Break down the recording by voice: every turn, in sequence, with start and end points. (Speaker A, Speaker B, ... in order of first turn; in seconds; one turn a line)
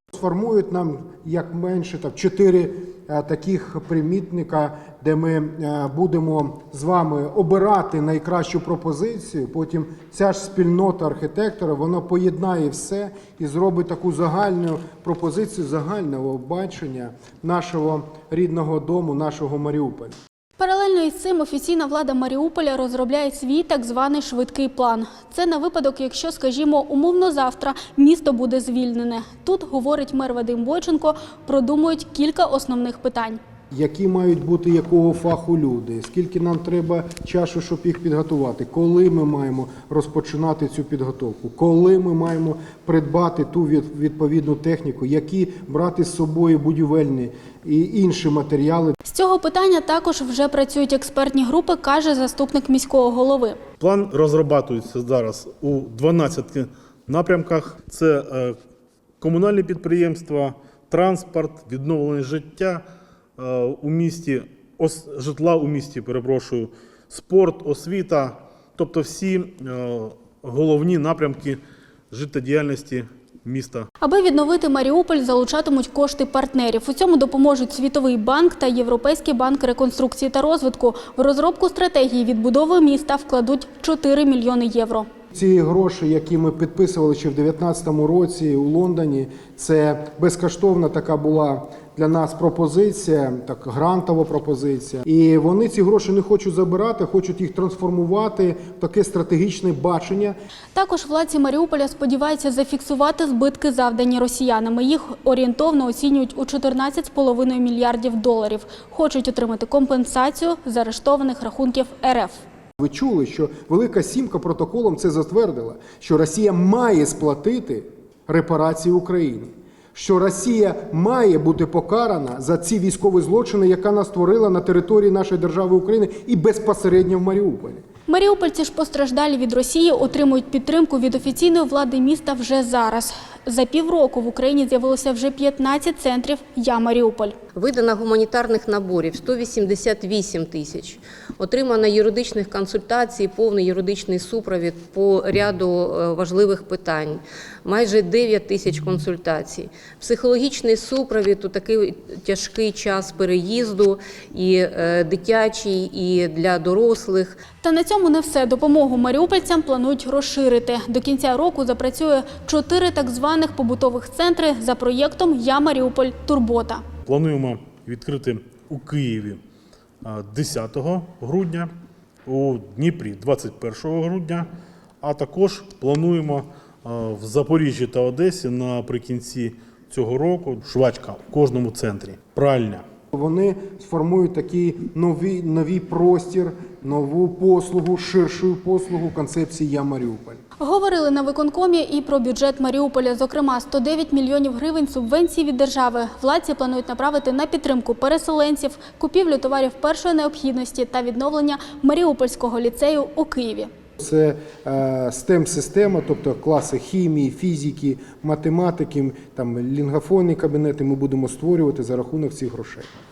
Speaker A: 0.1-20.2
Speaker B: 20.6-33.4
Speaker A: 33.7-49.0
Speaker B: 49.1-53.6
Speaker C: 53.8-58.6
Speaker C: 59.2-62.8
Speaker C: 63.4-73.9
Speaker B: 74.0-85.1
Speaker A: 85.3-100.4
Speaker B: 100.7-112.5
Speaker A: 112.8-127.8
Speaker B: 128.1-137.3
Speaker D: 137.6-157.4
Speaker B: 157.6-166.8
Speaker C: 167.1-169.4
Speaker C: 170.0-171.7
Speaker C: 172.2-174.5
Speaker C: 175.0-182.8
Speaker A: 183.1-190.4
Speaker B: 190.6-203.7
Speaker A: 204.0-212.9